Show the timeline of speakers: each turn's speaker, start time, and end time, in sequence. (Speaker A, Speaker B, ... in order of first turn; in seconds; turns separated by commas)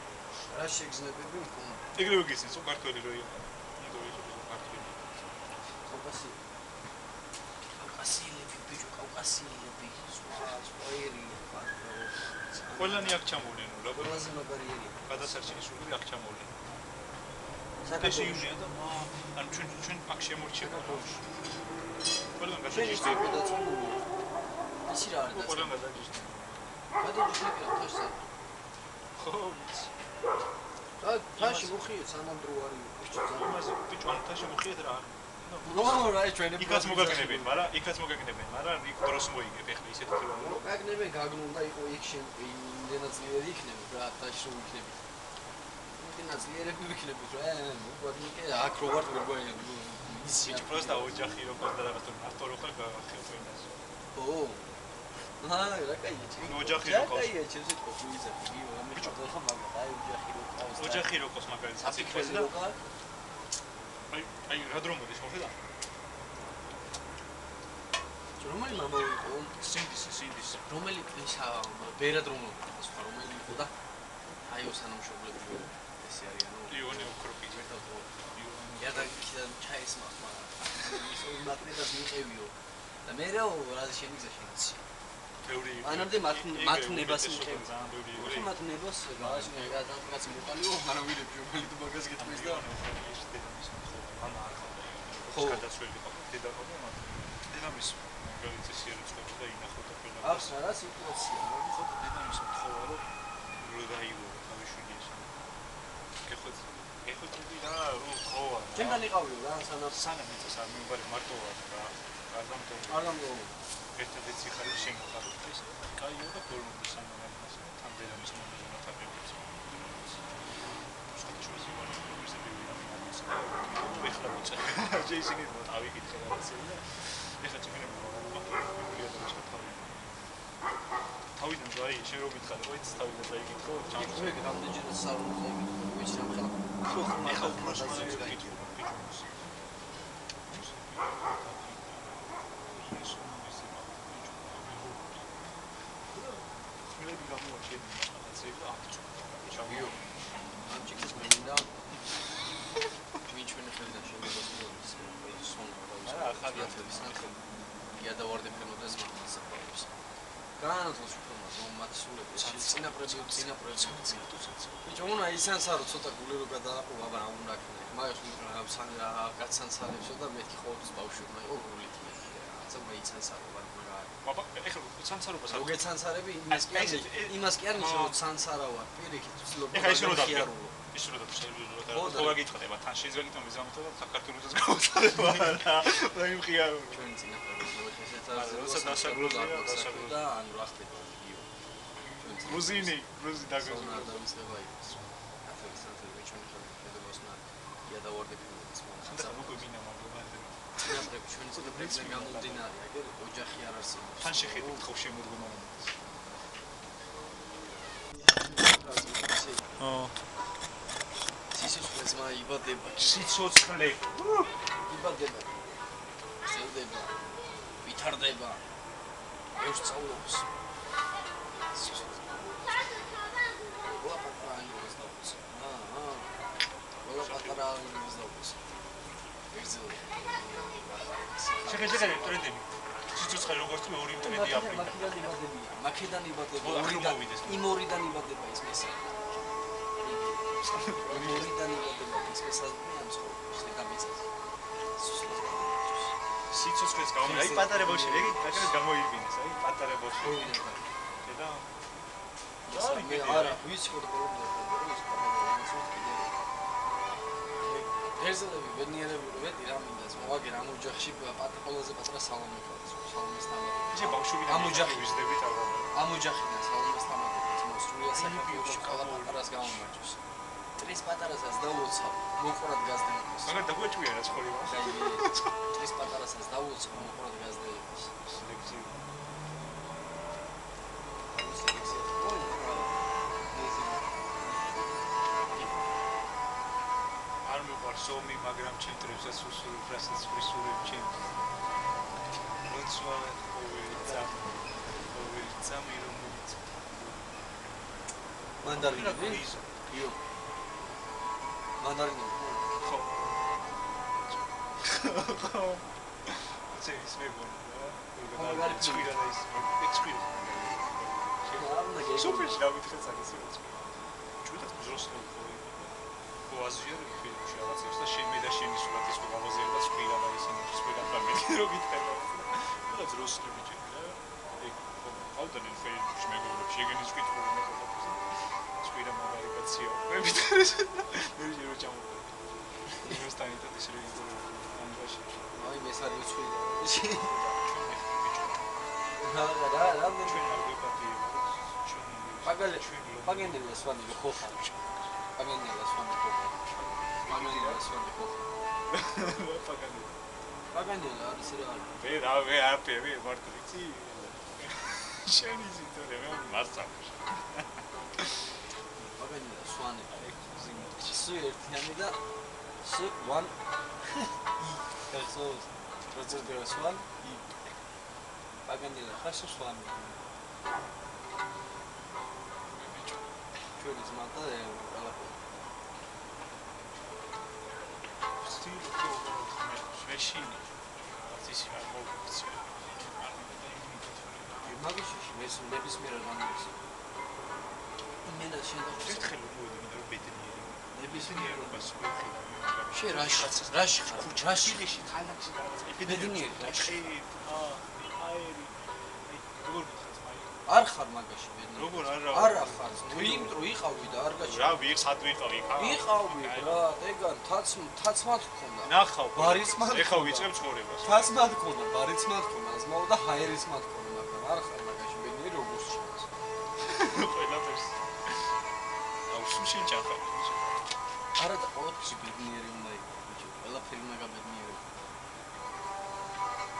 Speaker A: 0.5-1.8, Speaker B: 1.9-5.7, Speaker A: 5.9-6.4, Speaker A: 7.8-13.2, Speaker B: 12.7-14.3, Speaker A: 13.9-15.0, Speaker B: 15.0-16.5, Speaker A: 17.8-18.5, Speaker B: 17.9-21.2, Speaker A: 20.6-21.1, Speaker B: 22.4-23.4, Speaker A: 22.7-24.0, Speaker A: 24.9-25.8, Speaker B: 25.3-26.8, Speaker A: 27.0-28.3, Speaker B: 29.1-29.9, Speaker A: 31.0-33.6, Speaker B: 31.4-31.8, Speaker B: 33.1-40.6, Speaker A: 35.6-37.6, Speaker A: 40.3-45.0, Speaker A: 46.0-51.1, Speaker B: 50.4-53.7, Speaker A: 54.1-54.6, Speaker A: 55.4-61.1, Speaker B: 56.4-57.4, Speaker B: 58.9-59.2, Speaker B: 60.8-62.5, Speaker A: 61.8-62.8, Speaker B: 64.1-65.5, Speaker A: 68.4-69.5, Speaker B: 69.6-70.7, Speaker A: 70.7-73.7, Speaker A: 74.4-78.2, Speaker B: 76.7-77.7, Speaker B: 78.3-79.2, Speaker A: 78.8-82.5, Speaker A: 83.0-84.8, Speaker B: 85.4-88.5, Speaker A: 85.8-92.6, Speaker B: 89.1-89.7, Speaker B: 92.2-100.5, Speaker A: 95.2-95.6, Speaker A: 100.2-101.8, Speaker B: 101.7-103.0, Speaker B: 103.5-105.3, Speaker B: 106.2-109.0, Speaker A: 108.7-110.0, Speaker B: 109.9-113.1, Speaker A: 112.9-113.5, Speaker B: 113.9-130.2, Speaker B: 131.3-134.4, Speaker A: 133.9-138.7, Speaker B: 136.8-139.4, Speaker B: 140.4-150.0, Speaker A: 149.5-149.9, Speaker A: 150.7-151.7, Speaker A: 153.3-157.4, Speaker B: 156.0-157.4, Speaker A: 157.9-159.9, Speaker A: 160.6-164.3, Speaker B: 162.3-164.8, Speaker A: 164.8-174.1, Speaker B: 174.2-175.8, Speaker A: 175.5-180.8, Speaker B: 176.5-178.2, Speaker B: 179.7-187.1, Speaker A: 181.9-182.4, Speaker A: 186.9-191.5, Speaker B: 188.3-190.2, Speaker A: 192.2-193.0, Speaker B: 192.4-194.2, Speaker A: 193.6-199.7, Speaker B: 199.0-202.7, Speaker A: 200.8-204.8, Speaker B: 204.2-205.9, Speaker A: 208.1-209.8, Speaker B: 209.8-210.1, Speaker A: 211.5-213.2, Speaker B: 212.9-214.5, Speaker A: 214.8-215.6, Speaker A: 216.4-217.2, Speaker A: 217.8-218.6, Speaker A: 219.6-220.5, Speaker A: 221.7-223.0, Speaker A: 223.8-226.3, Speaker A: 227.0-228.6, Speaker B: 227.1-227.7, Speaker A: 229.5-232.4, Speaker B: 231.7-235.3, Speaker A: 234.2-239.0, Speaker B: 236.6-237.7, Speaker A: 240.0-244.3, Speaker B: 240.6-241.5, Speaker A: 244.9-246.1, Speaker B: 246.5-250.6, Speaker A: 247.2-248.7, Speaker A: 250.2-250.8, Speaker B: 251.2-251.7, Speaker A: 252.7-256.4, Speaker B: 252.7-253.6, Speaker A: 257.6-265.1, Speaker B: 263.9-265.9, Speaker A: 265.9-270.2, Speaker B: 268.1-269.8, Speaker A: 270.8-273.6, Speaker B: 273.4-275.5, Speaker A: 274.7-278.1, Speaker B: 278.2-279.1, Speaker A: 281.3-284.6, Speaker B: 287.4-291.5, Speaker B: 292.6-297.2, Speaker A: 294.0-294.3, Speaker A: 298.6-300.2, Speaker B: 298.7-299.7, Speaker A: 301.8-302.7, Speaker B: 302.8-303.4, Speaker B: 304.2-315.9, Speaker A: 308.3-309.1, Speaker A: 311.5-312.6, Speaker B: 316.5-328.2, Speaker B: 328.8-332.4, Speaker B: 333.0-335.5, Speaker A: 335.5-337.5, Speaker B: 337.2-338.7, Speaker A: 339.2-340.5, Speaker B: 340.2-345.1, Speaker A: 342.4-344.6, Speaker A: 345.4-346.6, Speaker B: 346.7-347.8, Speaker A: 347.2-348.4, Speaker B: 348.9-350.2, Speaker A: 350.7-351.9, Speaker B: 352.0-358.5, Speaker A: 359.1-360.1, Speaker B: 360.1-361.3, Speaker A: 361.0-362.2, Speaker A: 362.8-363.5, Speaker A: 364.1-367.2, Speaker B: 366.2-366.5, Speaker B: 367.2-367.5, Speaker A: 368.6-369.9, Speaker B: 369.4-370.2, Speaker B: 372.7-373.2, Speaker A: 373.8-375.5, Speaker B: 378.4-384.8, Speaker A: 384.6-386.8, Speaker A: 388.2-389.3, Speaker B: 389.0-400.6, Speaker A: 390.9-392.0, Speaker A: 392.9-394.8, Speaker A: 396.0-397.0, Speaker A: 400.6-404.8, Speaker B: 401.7-403.6, Speaker B: 404.4-406.9, Speaker A: 405.8-410.5, Speaker B: 408.8-411.4, Speaker A: 411.0-416.3, Speaker B: 416.8-418.5, Speaker B: 419.3-420.9, Speaker A: 421.4-424.9